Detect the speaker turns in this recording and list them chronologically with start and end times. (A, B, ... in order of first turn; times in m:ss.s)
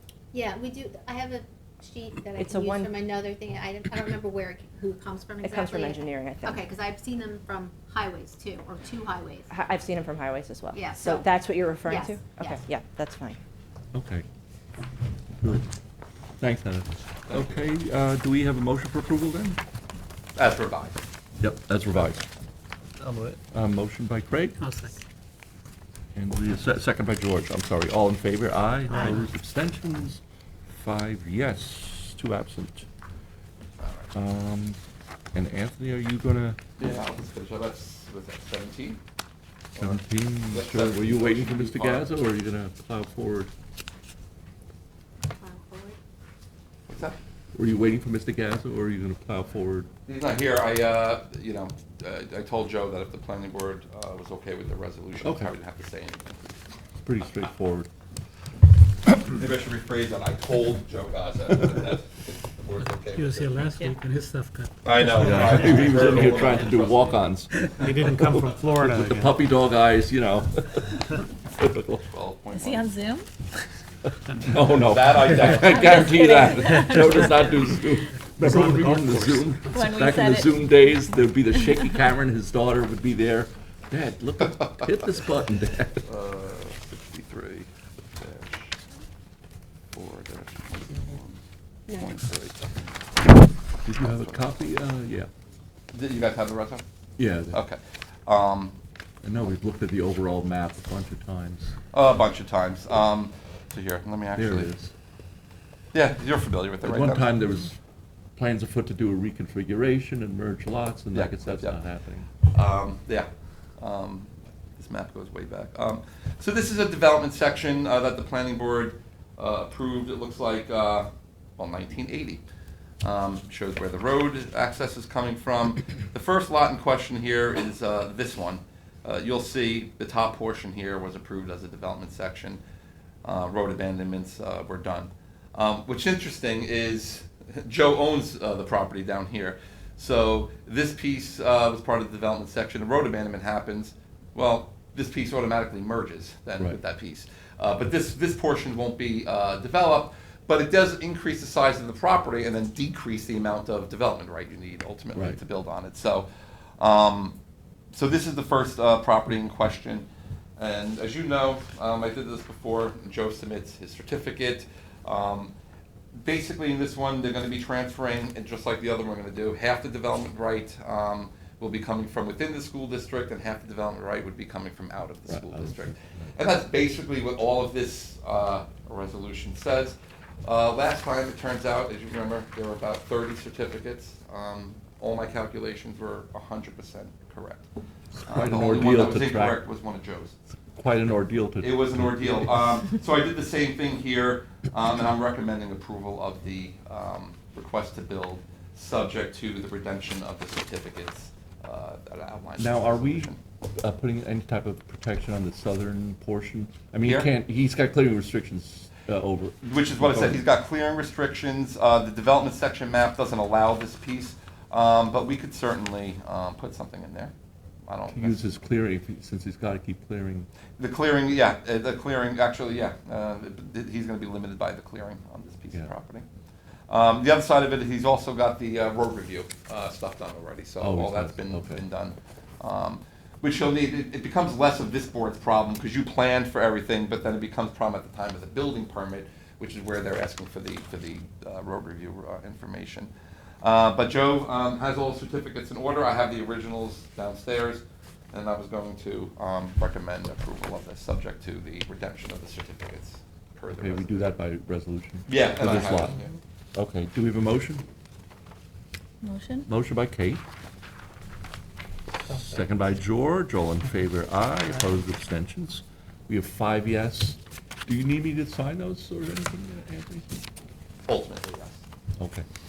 0:00.3-0:09.5 A
0:02.4-0:02.9 B
0:05.4-0:06.6 B
0:09.5-0:13.4 B
0:10.7-0:12.6 A
0:13.9-0:14.2 C
0:15.4-0:15.7 C
0:16.4-0:19.6 C
0:17.3-0:17.7 D
0:20.4-0:21.0 D
0:21.4-0:22.2 C
0:23.0-0:23.4 E
0:23.5-0:24.6 C
0:24.6-0:25.0 E
0:26.1-0:32.9 C
0:33.8-0:34.1 D
0:34.1-0:34.8 C
0:35.3-0:36.6 C
0:36.8-0:39.0 D
0:39.7-0:42.1 D
0:39.8-0:43.5 C
0:45.3-0:46.0 A
0:46.9-0:47.2 D
0:47.5-0:49.9 C
0:50.0-0:56.5 D
0:55.2-0:55.5 C
0:57.0-0:57.9 C
0:59.2-1:03.6 D
1:03.0-1:06.0 E
1:04.8-1:07.2 D
1:05.2-1:12.0 C
1:07.7-1:09.4 E
1:12.0-1:13.0 D
1:12.5-1:13.3 F
1:14.0-1:26.0 C
1:14.5-1:16.3 D
1:15.7-1:17.3 F
1:18.4-1:19.7 E
1:19.7-1:21.0 F
1:26.0-1:28.8 D
1:29.9-1:33.0 D
1:33.8-1:35.3 C
1:34.0-1:34.4 D
1:35.9-1:36.8 D
1:37.2-1:37.6 C
1:37.5-1:38.8 D
1:39.2-1:41.7 C
1:41.9-1:44.7 D
1:44.3-1:44.9 C
1:45.9-1:47.3 D
1:46.8-1:47.8 C
1:48.4-1:52.3 C
1:51.1-1:51.8 D
1:52.4-1:53.3 D
1:53.8-2:02.4 D
2:03.0-2:12.6 D
2:13.2-2:37.4 D
2:35.1-2:35.4 C
2:37.9-2:40.1 D
2:40.6-2:45.5 D
2:46.1-3:07.7 D
2:55.3-2:56.3 C
3:08.2-3:09.6 C
3:08.2-3:10.4 D
3:10.7-3:12.5 C
3:11.6-3:23.4 D
3:22.6-3:30.4 C
3:27.0-3:27.3 D
3:29.6-3:37.3 D
3:37.9-3:38.5 D
3:38.1-3:40.5 C
3:40.8-3:46.2 D
3:46.9-4:03.1 D
3:50.8-3:51.8 C
4:03.6-4:14.3 D
4:13.7-4:16.2 C
4:15.3-4:16.3 D
4:16.7-4:17.8 C
4:19.2-4:19.7 F
4:19.7-4:20.4 C
4:22.3-4:30.2 C
4:31.1-4:31.8 D
4:32.2-4:32.4 C